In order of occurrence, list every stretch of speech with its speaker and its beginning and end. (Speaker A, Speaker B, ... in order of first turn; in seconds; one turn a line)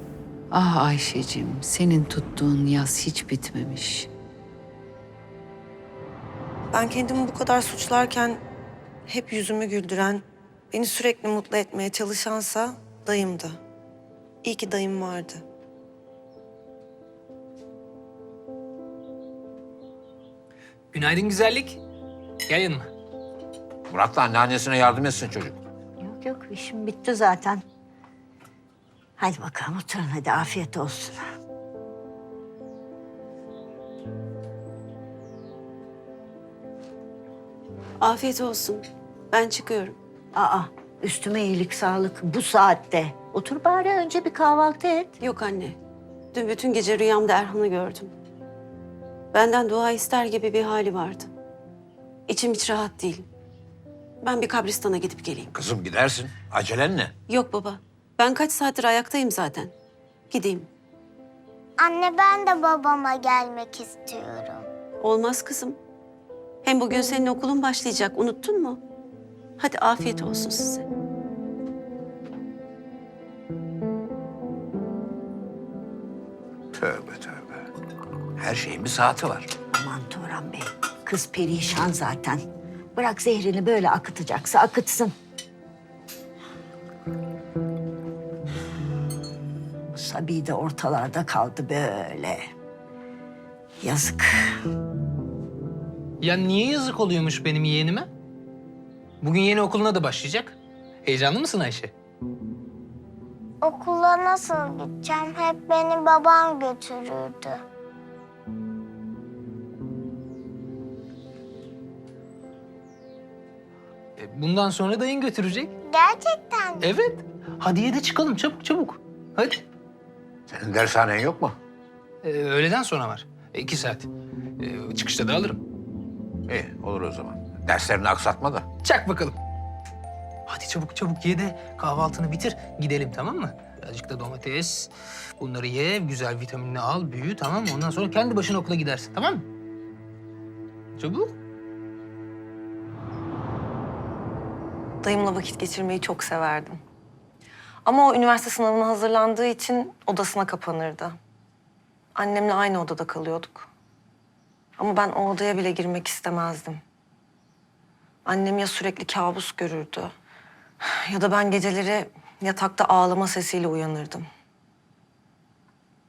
Speaker A: 0.5-4.1
Speaker B: 6.7-8.4
Speaker B: 9.1-13.6
Speaker B: 14.4-15.4
Speaker C: 20.9-21.8
Speaker C: 22.4-22.9
Speaker D: 23.9-25.6
Speaker E: 26.0-27.6
Speaker E: 29.2-31.2
Speaker F: 38.0-40.0
Speaker E: 40.3-45.1
Speaker F: 45.2-45.8
Speaker F: 46.3-48.1
Speaker F: 49.3-51.3
Speaker F: 52.3-53.2
Speaker F: 54.2-55.5
Speaker D: 55.5-57.1
Speaker F: 57.3-59.7
Speaker F: 60.3-60.7
Speaker G: 61.8-64.7
Speaker F: 65.0-65.8
Speaker F: 66.6-68.8
Speaker F: 69.6-70.8
Speaker D: 76.8-77.7
Speaker D: 78.4-79.5
Speaker E: 79.7-82.4
Speaker E: 82.9-85.1
Speaker E: 89.9-92.4
Speaker E: 93.8-94.5
Speaker C: 96.2-98.1
Speaker C: 99.2-101.9
Speaker G: 103.6-107.6
Speaker C: 114.2-115.7
Speaker G: 115.8-116.9
Speaker C: 116.8-119.6
Speaker D: 120.5-121.6
Speaker C: 122.2-125.6
Speaker D: 126.5-128.7
Speaker C: 128.8-129.4
Speaker C: 130.5-139.4
Speaker C: 141.0-141.3
Speaker B: 145.0-146.8
Speaker B: 147.8-151.2
Speaker B: 152.1-153.7
Speaker B: 154.8-156.8
Speaker B: 158.2-160.1
Speaker B: 160.8-164.2